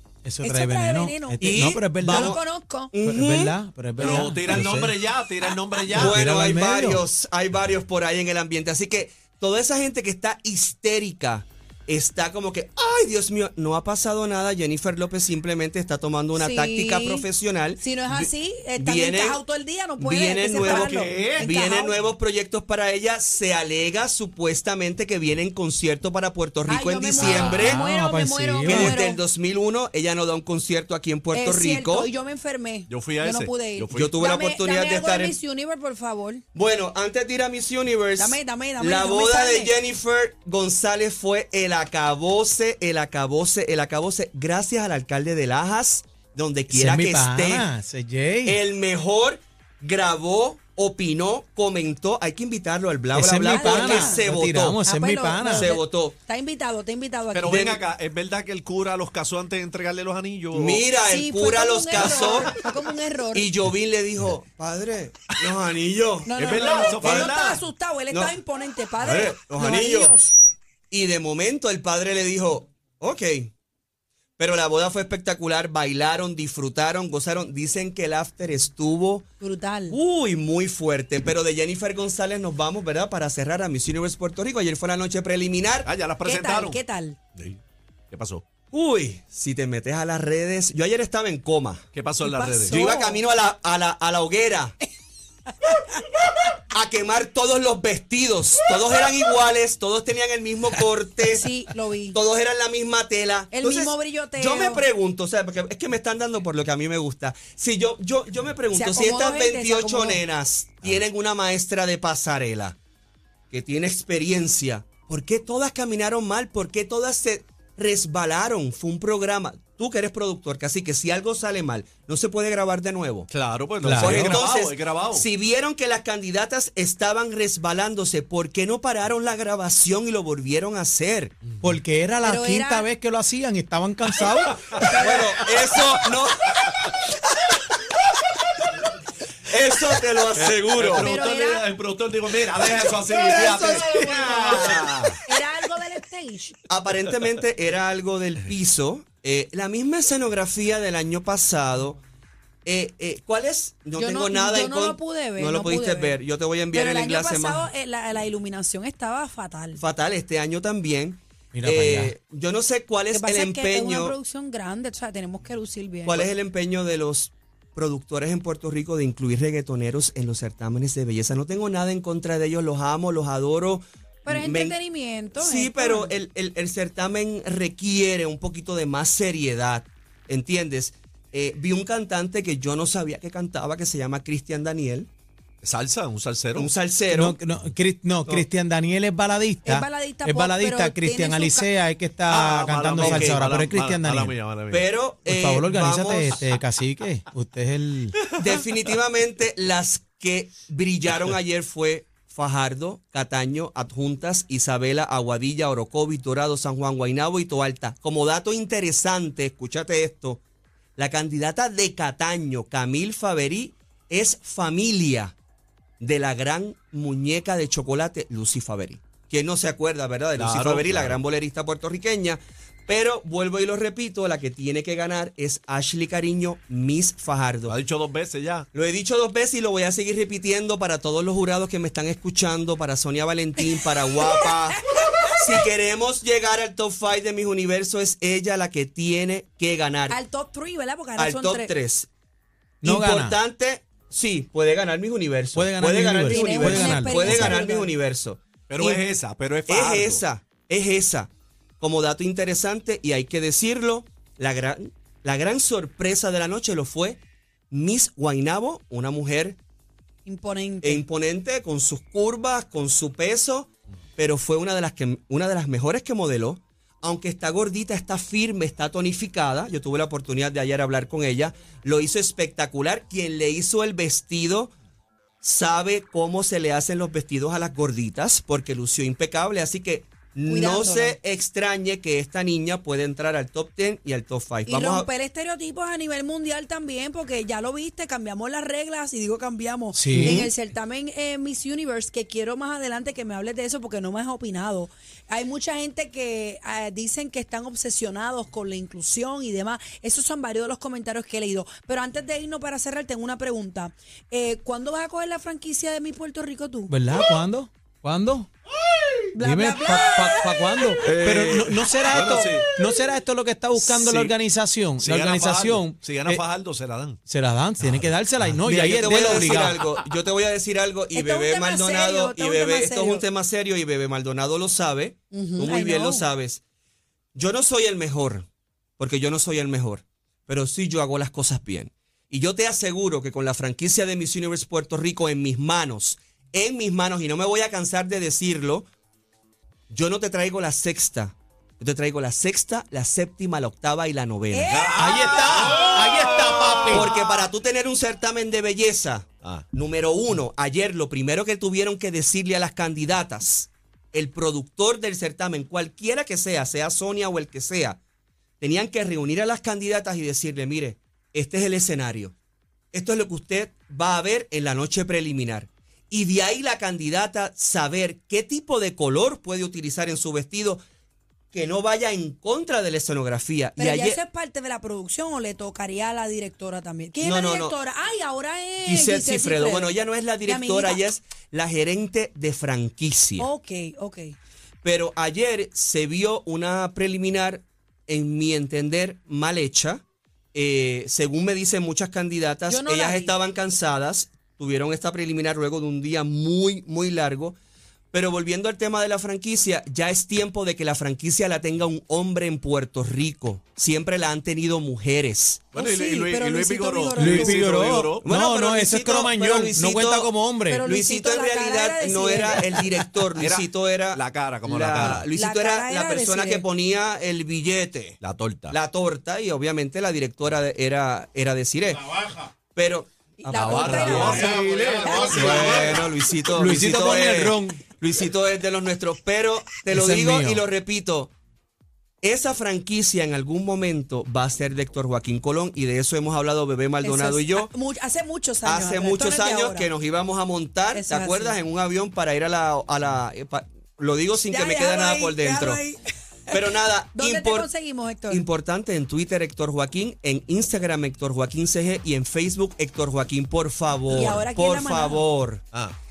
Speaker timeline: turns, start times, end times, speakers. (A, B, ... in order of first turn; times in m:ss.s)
0:00.2-0:02.4 A
0:00.4-0:02.9 B
0:01.4-0:02.4 C
0:02.9-0:03.5 C
0:03.0-0:05.0 A
0:04.0-0:06.2 D
0:05.9-0:07.0 A
0:05.9-0:19.4 C
0:16.4-0:17.2 B
0:17.8-0:22.0 B
0:20.0-0:27.8 C
0:20.5-0:21.5 D
0:26.7-0:29.2 B
0:27.2-0:29.0 A
0:28.7-0:32.1 C
0:31.3-0:36.4 B
0:32.9-0:34.2 D
0:33.9-0:35.4 C
0:36.5-0:47.7 C
0:38.2-0:39.8 B
0:46.7-0:48.6 A
0:48.4-0:54.8 C
0:53.1-0:55.7 A
0:53.5-0:54.2 B
0:54.8-0:57.6 B
0:55.4-0:56.2 C
0:57.3-1:00.8 D
0:57.5-0:57.8 C
1:00.5-1:02.6 C
1:01.0-1:03.5 B
1:02.0-1:02.5 D
1:03.3-1:07.3 C
1:06.3-1:10.3 B
1:06.4-1:07.6 D
1:08.1-1:08.4 C
1:09.0-1:10.2 C
1:09.0-1:09.3 D
1:10.9-1:13.5 C
1:14.4-1:19.3 C
1:19.4-1:20.0 B
1:19.9-1:25.9 C
1:25.8-1:26.8 D
1:26.2-1:27.2 B
1:28.1-1:28.4 D
1:28.7-1:31.8 C
1:31.9-1:32.8 D
1:32.2-1:33.2 B
1:32.7-1:34.8 C
1:35.6-1:36.3 B
1:36.7-1:41.5 C
1:41.3-1:42.2 B
1:42.1-1:52.8 C
1:43.5-1:44.8 B
1:48.7-1:50.2 B
1:53.5-2:03.3 C
2:03.3-2:05.2 D
2:03.8-2:04.4 A
2:04.0-2:11.4 C
2:11.6-2:15.1 A
2:12.2-2:12.9 B
2:15.0-2:17.1 C
2:19.5-2:21.1 C
2:20.4-2:25.2 D
2:21.0-2:21.7 B
2:23.1-2:25.2 C
2:23.2-2:24.4 B
2:25.3-2:26.6 B
2:26.7-2:32.0 C
2:32.6-2:37.7 C
2:34.0-2:36.2 B
2:36.7-2:39.8 B
2:39.8-2:44.2 C
2:41.5-2:42.1 A
2:43.1-2:46.3 B
2:46.1-2:54.8 C
2:54.2-2:56.1 B
2:55.4-3:05.1 C
3:05.6-3:06.7 D
3:06.6-3:07.4 C
3:07.1-3:14.4 A
3:09.7-3:11.7 B
3:12.3-3:14.9 D
3:13.0-3:13.4 C
3:14.7-3:16.4 C
3:15.2-3:18.2 A
3:18.4-3:30.4 C
3:31.0-3:35.4 C
3:36.0-3:47.8 C
3:40.4-3:41.2 D
3:47.7-3:48.7 D
3:48.7-3:54.8 C
3:53.7-3:55.6 B
3:55.4-4:00.2 C
4:00.1-4:01.7 B
4:01.2-4:02.1 C
4:02.8-4:09.1 C
4:02.8-4:03.4 A
4:05.5-4:07.6 A
4:06.3-4:07.9 B
4:08.7-4:10.2 D
4:09.7-4:11.3 C
4:11.8-4:17.2 C
4:17.7-4:19.6 C
4:20.2-4:21.0 B
4:20.8-4:34.7 C
4:35.4-4:45.1 C
4:40.5-4:41.2 B
4:44.7-5:06.9 B
4:49.9-4:50.4 A
4:50.2-4:50.5 C
5:06.9-5:08.5 A
5:09.3-5:11.0 B
5:09.4-5:16.4 A
5:11.0-5:12.7 D
5:13.8-5:14.4 D
5:15.0-5:17.2 D
5:17.3-5:19.8 A
5:17.8-5:18.6 D
5:18.6-5:26.6 C
5:19.3-5:19.9 D
5:21.1-5:23.2 B
5:25.3-5:26.3 B
5:27.4-5:28.5 C
5:29.0-5:38.9 C
5:39.9-5:44.7 C
5:44.5-5:46.6 B
5:44.7-5:47.1 D
5:45.0-5:47.1 A
5:46.9-5:58.0 C
5:58.6-6:02.3 C
6:02.9-6:10.8 C
6:11.5-6:14.2 C
6:13.8-6:21.0 B
6:17.2-6:17.8 C
6:18.8-6:23.5 C
6:23.4-6:24.4 B
6:24.8-6:30.0 C
6:30.6-6:37.6 C
6:32.7-6:33.4 B
6:38.1-6:45.7 C
6:45.7-6:48.3 D
6:45.8-6:47.9 B
6:47.2-6:50.8 A
6:48.2-6:50.3 C
6:50.7-6:52.8 B
6:50.8-6:58.2 C
6:53.4-6:55.3 D
6:55.3-6:56.6 B
6:58.2-6:58.8 D
6:58.7-7:04.6 C
7:03.4-7:05.8 B
7:03.5-7:06.0 D
7:04.2-7:04.5 A
7:05.0-7:05.9 A
7:05.1-7:11.3 C
7:06.5-7:07.8 A
7:09.9-7:10.6 A
7:12.2-7:17.7 C
7:17.0-7:19.9 B
7:18.6-7:25.8 C
7:20.9-7:21.6 B
7:24.4-7:26.6 B
7:26.5-7:27.7 C
7:27.2-7:28.4 B
7:28.3-7:35.6 C
7:34.1-7:35.2 B